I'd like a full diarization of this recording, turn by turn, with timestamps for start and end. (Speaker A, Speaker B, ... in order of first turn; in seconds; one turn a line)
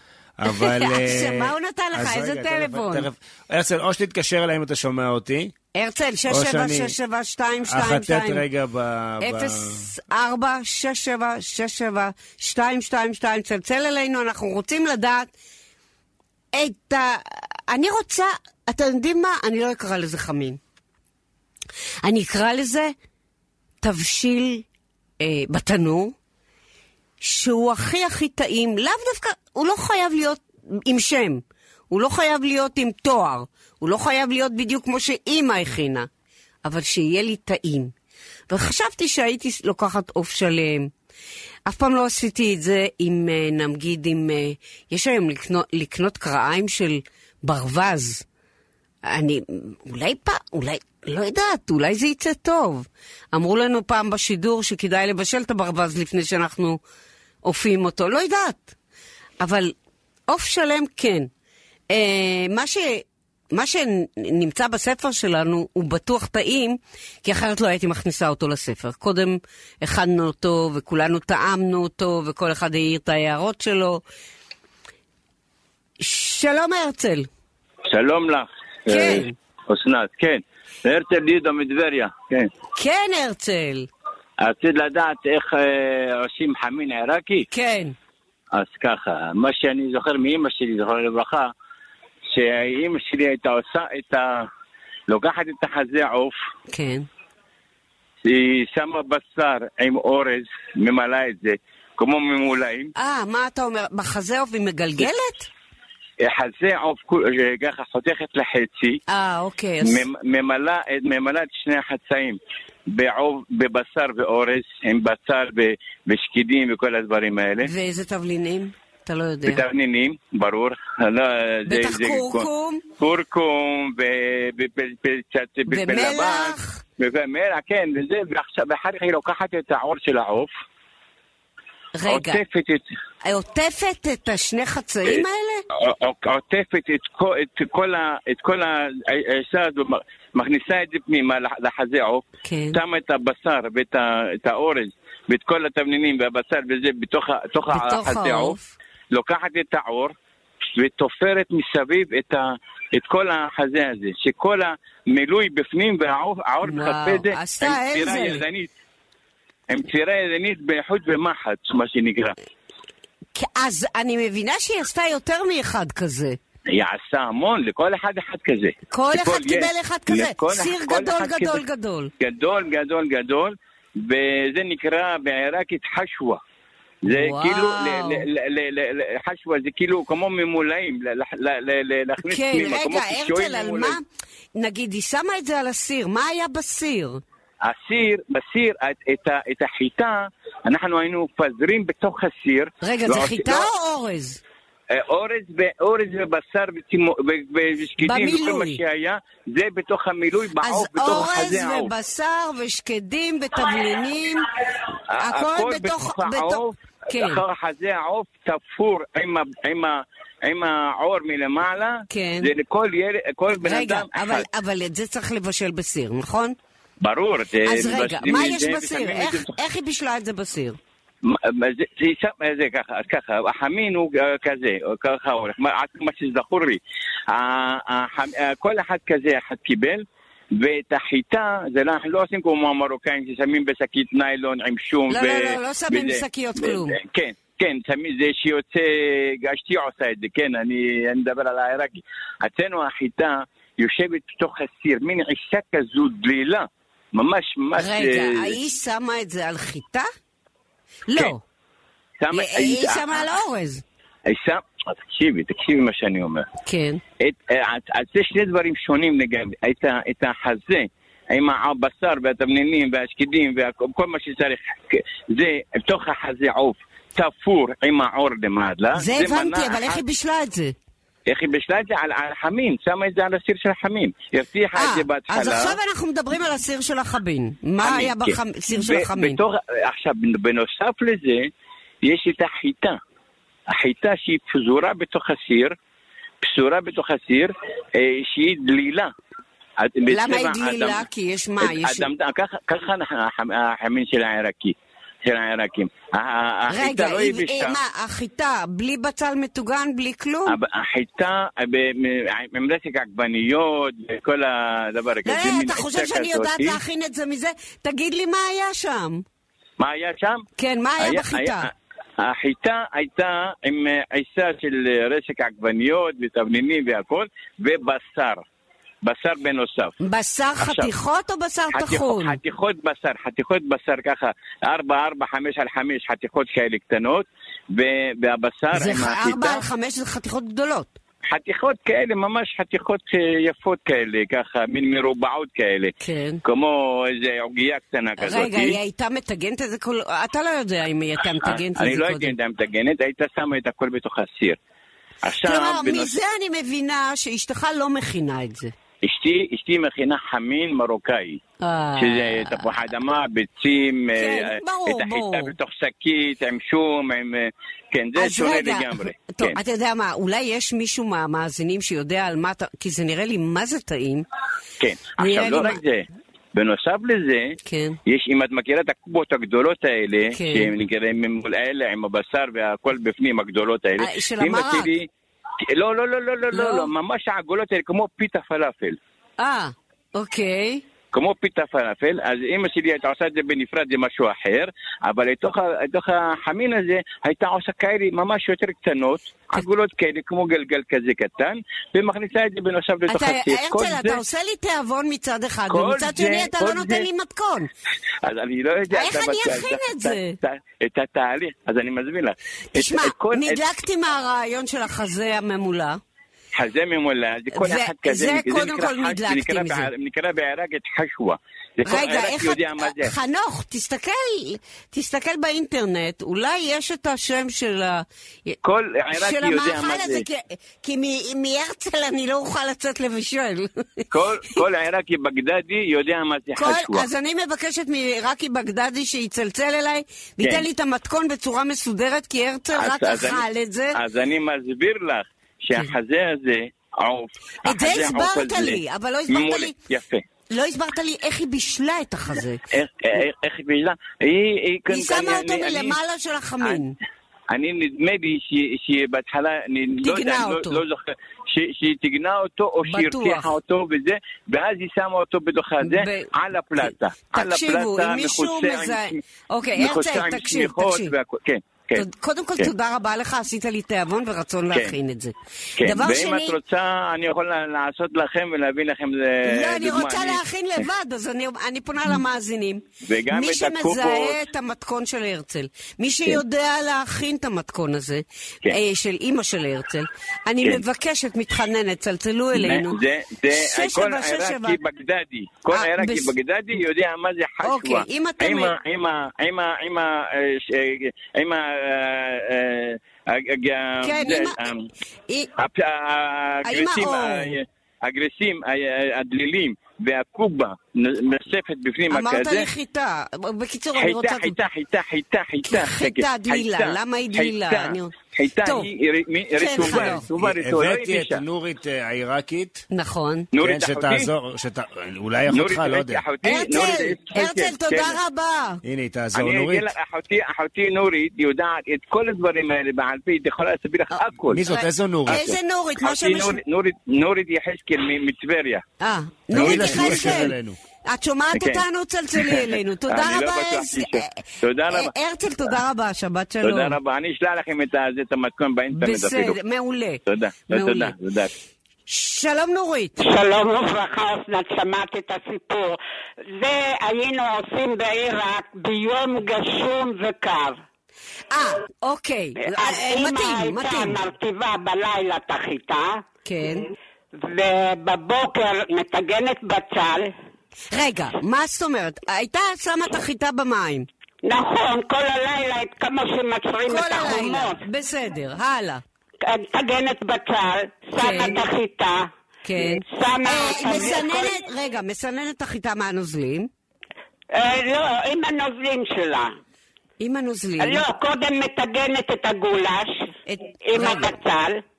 Speaker A: 0.4-5.5
Speaker B: 0.5-3.1
Speaker B: 5.7-8.4
Speaker A: 6.3-6.9
Speaker A: 7.7-9.9
Speaker B: 9.2-15.3
Speaker B: 16.5-20.6
Speaker B: 22.0-22.9
Speaker B: 23.8-24.6
Speaker B: 25.2-26.1
Speaker B: 27.2-36.1
Speaker B: 36.6-37.9
Speaker B: 38.5-40.9
Speaker B: 41.6-48.2
Speaker B: 49.0-56.8
Speaker B: 57.4-58.7
Speaker B: 59.4-59.7
Speaker B: 60.3-61.3
Speaker B: 61.9-74.0
Speaker B: 76.0-77.3
Speaker C: 77.9-82.5
Speaker B: 78.9-79.3
Speaker B: 82.7-83.9
Speaker C: 84.4-87.5
Speaker B: 87.5-87.9
Speaker C: 88.5-91.5
Speaker C: 92.3-94.5
Speaker C: 95.1-96.3
Speaker B: 96.7-97.1
Speaker C: 98.2-102.9
Speaker B: 103.0-105.5
Speaker C: 106.2-109.0
Speaker B: 109.1-110.0
Speaker C: 109.8-112.4
Speaker C: 112.9-117.7
Speaker B: 117.6-119.6
Speaker C: 119.5-122.5
Speaker B: 121.7-122.8
Speaker C: 123.0-130.5
Speaker B: 125.7-126.8
Speaker B: 131.9-132.4
Speaker C: 132.1-132.8
Speaker B: 133.2-135.6
Speaker C: 135.7-148.6
Speaker B: 142.4-142.8
Speaker B: 147.7-148.7
Speaker C: 149.1-150.1
Speaker C: 150.7-158.7
Speaker B: 156.6-158.4
Speaker C: 159.7-162.3
Speaker B: 163.3-166.4
Speaker C: 166.7-171.6
Speaker B: 168.9-172.1
Speaker C: 172.2-176.4
Speaker C: 177.0-184.0
Speaker B: 177.1-178.2
Speaker B: 182.2-184.0
Speaker B: 184.6-187.2
Speaker C: 187.6-193.7
Speaker B: 192.8-194.4
Speaker C: 194.9-201.9
Speaker B: 198.0-198.8
Speaker B: 200.6-204.5
Speaker C: 205.1-214.4
Speaker B: 205.2-207.4
Speaker B: 212.1-212.5
Speaker B: 213.6-216.6
Speaker C: 217.0-219.6
Speaker B: 217.6-220.8
Speaker C: 221.2-230.0
Speaker C: 230.5-248.6
Speaker B: 235.1-237.0
Speaker B: 247.8-250.1
Speaker B: 251.1-251.4
Speaker C: 252.2-253.3
Speaker B: 252.3-253.8
Speaker C: 254.3-256.5
Speaker B: 256.6-257.0
Speaker C: 257.2-270.0
Speaker B: 268.9-270.7
Speaker C: 271.3-275.8
Speaker B: 274.7-279.4
Speaker C: 277.8-281.5
Speaker C: 282.0-283.0
Speaker C: 283.7-285.7
Speaker C: 286.4-289.1
Speaker C: 289.8-291.0
Speaker B: 290.1-292.1
Speaker C: 291.6-297.8
Speaker B: 296.7-300.6
Speaker C: 300.4-306.8
Speaker B: 305.2-309.2
Speaker C: 309.8-310.4
Speaker B: 310.6-311.7
Speaker C: 311.0-318.4
Speaker C: 319.0-319.9
Speaker B: 320.0-322.4
Speaker C: 320.6-320.9
Speaker C: 321.7-329.6
Speaker B: 328.7-330.9
Speaker C: 331.3-335.9
Speaker B: 336.0-336.4
Speaker C: 336.4-338.8
Speaker B: 338.2-342.3
Speaker C: 341.4-344.6
Speaker C: 345.2-346.1
Speaker B: 345.4-348.7
Speaker C: 349.0-351.4
Speaker B: 351.6-352.7
Speaker C: 352.0-359.6
Speaker B: 354.1-355.5
Speaker B: 358.2-364.2
Speaker C: 364.8-375.1
Speaker B: 365.2-365.8
Speaker B: 367.6-368.0
Speaker B: 370.3-370.7
Speaker B: 374.0-374.9
Speaker C: 375.6-379.0
Speaker B: 376.5-376.9
Speaker B: 379.4-380.8
Speaker C: 381.1-394.2
Speaker B: 393.1-397.7
Speaker C: 395.7-397.1
Speaker C: 398.2-403.6
Speaker B: 398.9-400.4
Speaker B: 402.7-406.0
Speaker C: 406.5-413.1
Speaker B: 407.5-409.9
Speaker B: 411.8-418.6
Speaker C: 418.6-420.2
Speaker B: 419.1-424.0
Speaker C: 424.1-427.1
Speaker B: 426.6-434.0
Speaker C: 432.7-440.2
Speaker B: 437.6-439.7
Speaker B: 440.5-442.6
Speaker C: 442.7-446.0
Speaker B: 444.9-446.9
Speaker C: 447.5-459.2
Speaker B: 450.0-450.8
Speaker B: 452.8-453.5
Speaker B: 455.8-456.3
Speaker B: 456.8-461.1
Speaker C: 459.8-462.0
Speaker B: 461.9-466.6
Speaker C: 465.8-470.4
Speaker B: 469.4-483.0
Speaker C: 473.1-474.4
Speaker C: 482.5-494.9
Speaker B: 483.5-484.8
Speaker B: 485.7-486.3
Speaker B: 487.6-488.7
Speaker B: 494.0-494.6
Speaker C: 495.6-502.7
Speaker B: 496.6-497.5
Speaker B: 502.1-504.6
Speaker C: 504.0-511.4
Speaker B: 505.6-508.9
Speaker B: 509.6-510.2
Speaker A: 510.0-512.9
Speaker B: 512.9-513.5
Speaker C: 513.5-514.3
Speaker A: 513.5-516.2
Speaker C: 515.5-518.2
Speaker B: 516.4-518.8
Speaker A: 518.8-519.9
Speaker C: 519.3-524.7
Speaker B: 524.1-526.6
Speaker A: 524.5-525.6
Speaker C: 526.0-528.8
Speaker B: 529.0-530.5
Speaker A: 529.5-530.8
Speaker C: 529.5-530.4
Speaker B: 531.1-534.3
Speaker C: 531.5-531.8
Speaker C: 532.4-535.1
Speaker B: 534.9-537.0
Speaker C: 536.6-539.6
Speaker B: 538.9-541.1
Speaker C: 540.3-541.5
Speaker B: 542.1-543.2
Speaker D: 543.2-546.0
Speaker D: 546.5-550.8
Speaker B: 551.5-554.2
Speaker D: 552.6-556.2
Speaker B: 556.4-556.9
Speaker D: 557.4-560.3
Speaker B: 560.9-564.1
Speaker D: 564.4-567.8
Speaker B: 566.9-569.0
Speaker D: 569.4-572.3
Speaker B: 571.1-571.6
Speaker B: 572.6-576.7
Speaker D: 572.8-574.6
Speaker D: 577.5-579.5
Speaker B: 580.2-581.0
Speaker D: 580.8-583.2
Speaker B: 583.5-584.3
Speaker D: 583.8-584.8